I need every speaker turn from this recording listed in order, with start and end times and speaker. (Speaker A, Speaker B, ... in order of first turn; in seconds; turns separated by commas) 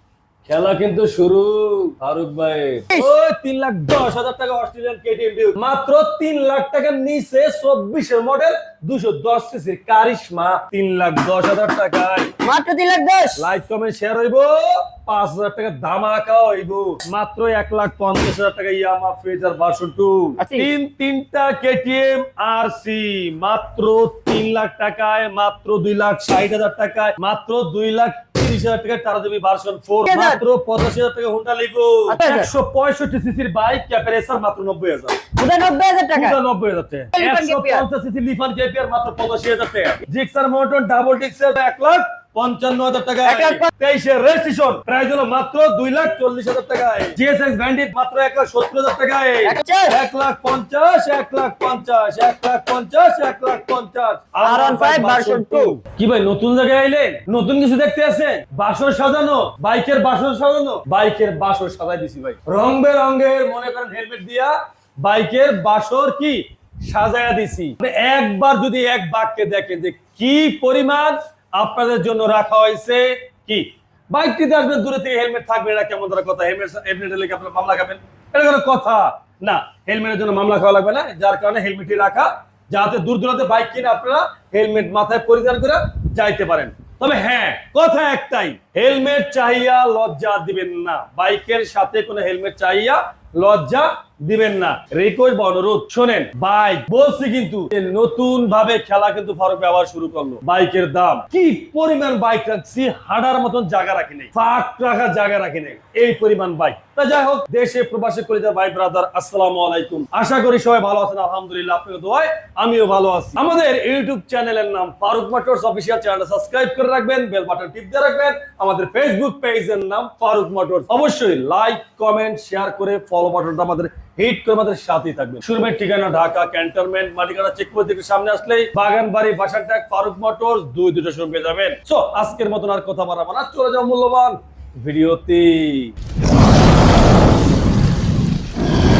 Speaker A: 0.5-12.3, Speaker B: 12.4-13.5, Speaker A: 13.4-35.2, Speaker B: 20.4-20.7, Speaker B: 30.1-30.4, Speaker B: 32.1-32.5, Speaker B: 35.4-36.4, Speaker A: 36.1-135.9, Speaker B: 37.1-37.9, Speaker B: 43.2-43.7, Speaker B: 49.4-50.0, Speaker B: 54.4-55.8